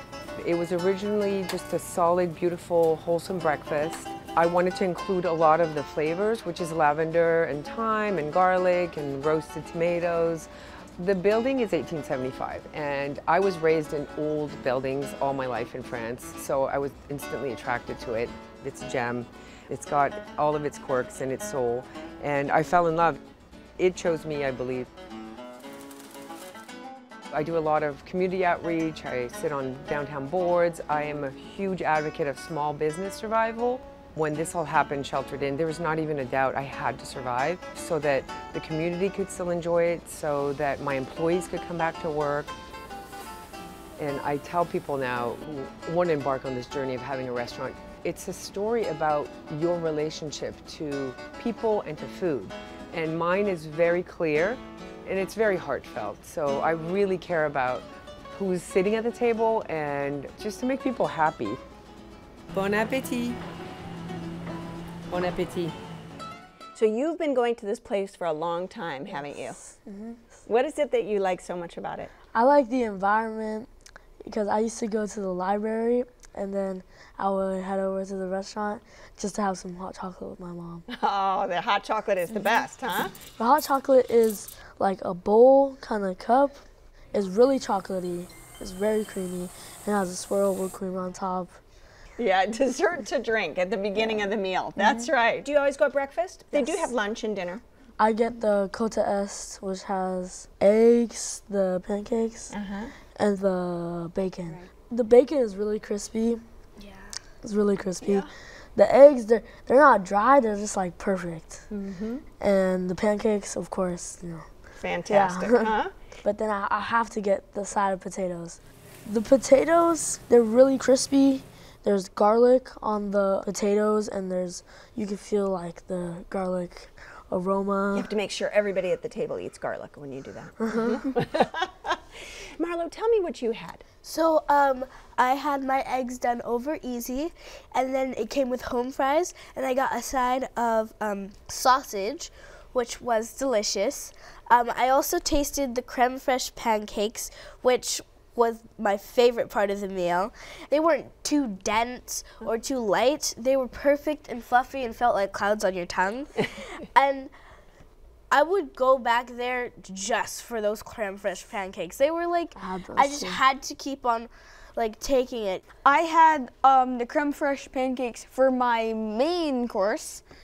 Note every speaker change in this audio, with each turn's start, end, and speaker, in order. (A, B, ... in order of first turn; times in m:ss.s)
0:00.4-0:23.2 A
0:23.8-0:24.9 A
0:27.3-0:42.5 A
0:44.0-1:01.6 A
1:02.5-1:03.4 A
1:05.1-1:05.7 A
1:06.7-1:09.6 B
1:09.1-1:10.4 C
1:10.5-1:12.1 B
1:12.3-1:13.7 C
1:14.2-1:20.8 C
1:20.9-1:23.1 B
1:23.4-1:26.6 C
1:27.1-1:31.6 C
1:32.2-1:37.6 B
1:34.0-1:34.2 C
1:34.8-1:35.1 C
1:36.6-1:36.9 C
1:38.0-1:42.5 C
1:42.5-1:42.9 B
1:43.2-1:46.4 C
1:46.8-1:47.2 D
1:47.4-1:51.7 C
1:51.7-1:52.2 B
1:52.4-1:54.5 C
1:54.8-1:55.9 B
1:55.0-2:08.1 C
2:07.9-2:12.0 B
2:10.6-2:11.1 C
2:12.6-2:13.8 B
2:14.0-2:37.3 D
2:38.3-2:45.6 D
2:42.6-2:43.4 C
2:45.8-2:50.2 E